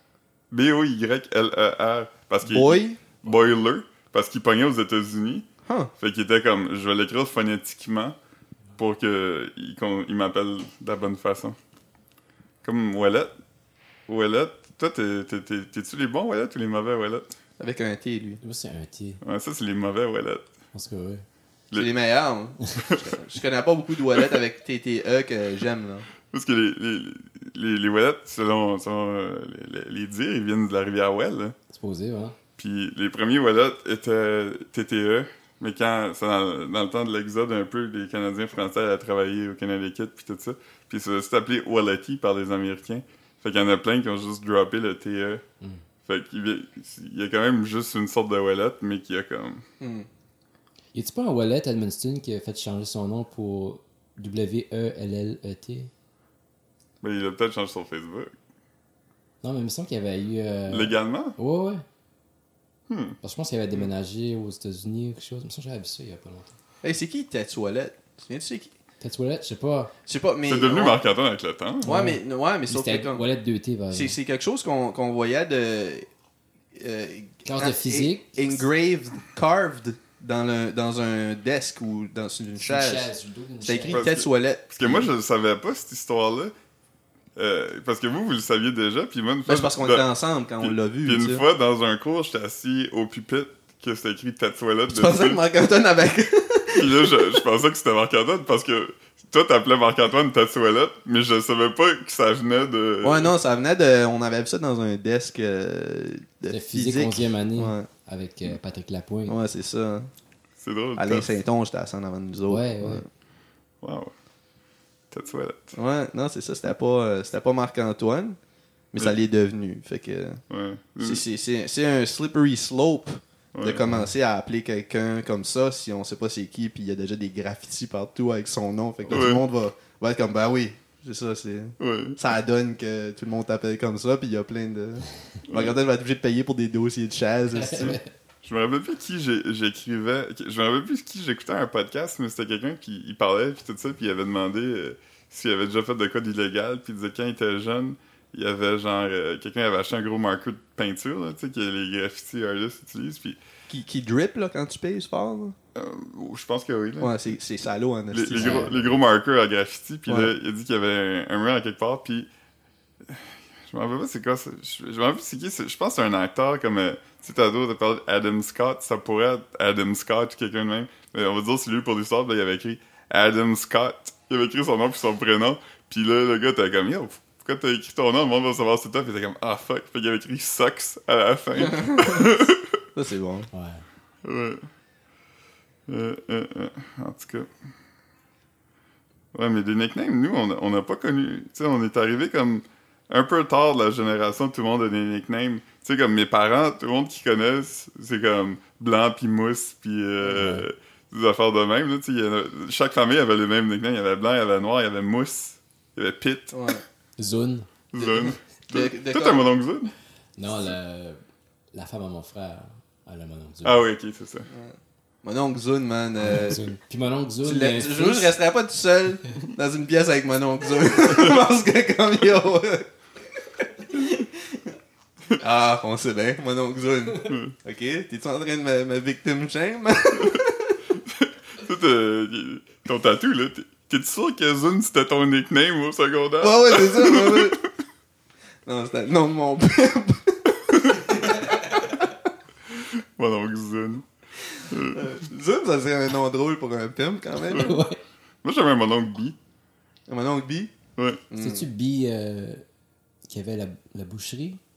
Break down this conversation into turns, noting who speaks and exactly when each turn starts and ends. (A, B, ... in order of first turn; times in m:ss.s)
0:00.5-0:05.4 A
0:02.4-0:03.0 B
0:05.6-0:05.9 B
0:06.0-0:08.2 A
0:08.8-0:11.6 A
0:12.6-0:13.3 A
0:14.1-0:17.3 A
0:17.6-0:18.4 B
0:18.4-0:19.2 C
0:19.2-0:20.4 A
0:20.7-0:21.2 C
0:21.7-0:26.1 B
0:22.9-0:23.1 A
0:26.3-0:31.6 A
0:31.7-0:32.4 C
0:32.6-0:45.4 A
0:46.0-0:49.6 A
0:49.8-0:50.1 B
0:50.9-0:55.9 C
0:57.0-0:58.3 A
0:59.4-1:01.8 C
1:00.7-1:01.4 A
1:02.9-1:03.2 A
1:03.2-1:06.5 C
1:06.8-1:08.7 B
1:09.0-1:09.9 C
1:10.0-1:11.0 B
1:10.5-1:11.9 A
1:11.8-1:14.2 C
1:11.8-1:13.2 B
1:13.9-1:16.0 B
1:16.8-1:23.1 B
1:17.4-1:18.6 C
1:22.6-1:24.0 C
1:23.6-1:25.1 B
1:23.9-1:26.5 A
1:27.4-1:30.1 A
1:29.4-1:31.4 B
1:30.6-1:35.4 A
1:34.9-1:37.4 B
1:36.8-1:43.3 A
1:43.0-1:47.9 B
1:46.5-1:49.3 C
1:49.2-1:50.1 B
1:50.6-1:51.4 A
1:51.0-1:53.1 B
1:52.5-1:53.0 C
1:53.8-1:54.1 A
1:55.1-1:55.7 A
1:55.7-1:58.4 B
1:58.9-2:00.4 B
2:00.5-2:01.2 A
2:01.0-2:18.0 B
2:03.5-2:03.8 A
2:09.1-2:09.4 A
2:11.8-2:12.2 A
2:15.4-2:15.8 A
2:17.6-2:18.0 C
2:18.4-2:33.4 A
2:33.7-2:35.5 B
2:35.7-2:37.3 A
2:37.0-2:38.7 B
2:38.1-2:42.3 A
2:38.3-2:38.9 C
2:40.1-2:40.3 B
2:43.0-3:02.8 A
3:01.5-3:02.4 B
3:02.9-3:03.5 B
3:03.5-3:03.8 C
3:04.2-3:04.6 A
3:05.9-3:07.5 A
3:09.3-3:26.6 A
3:20.2-3:20.6 C
3:26.5-3:26.8 B
3:27.2-3:27.7 C
3:27.9-3:29.9 A
3:28.0-3:29.4 B
3:30.4-3:31.2 C
3:31.7-3:33.8 C
3:33.6-3:34.5 A
3:34.5-3:36.6 B
3:36.2-3:38.4 C
3:37.4-3:42.9 B
3:43.8-3:44.7 B
3:45.4-3:50.8 B
3:47.2-3:47.5 A
3:51.1-3:57.6 A
3:56.4-3:57.6 B
3:58.6-4:02.1 B
4:02.8-4:04.1 A
4:04.7-4:05.2 A
4:04.8-4:07.8 B
4:07.5-4:08.0 C
4:07.5-4:07.8 A
4:08.4-4:09.4 A
4:10.1-4:10.7 B
4:11.0-4:11.2 A
4:11.3-4:11.6 B
4:11.4-4:12.6 C
4:13.3-4:14.6 C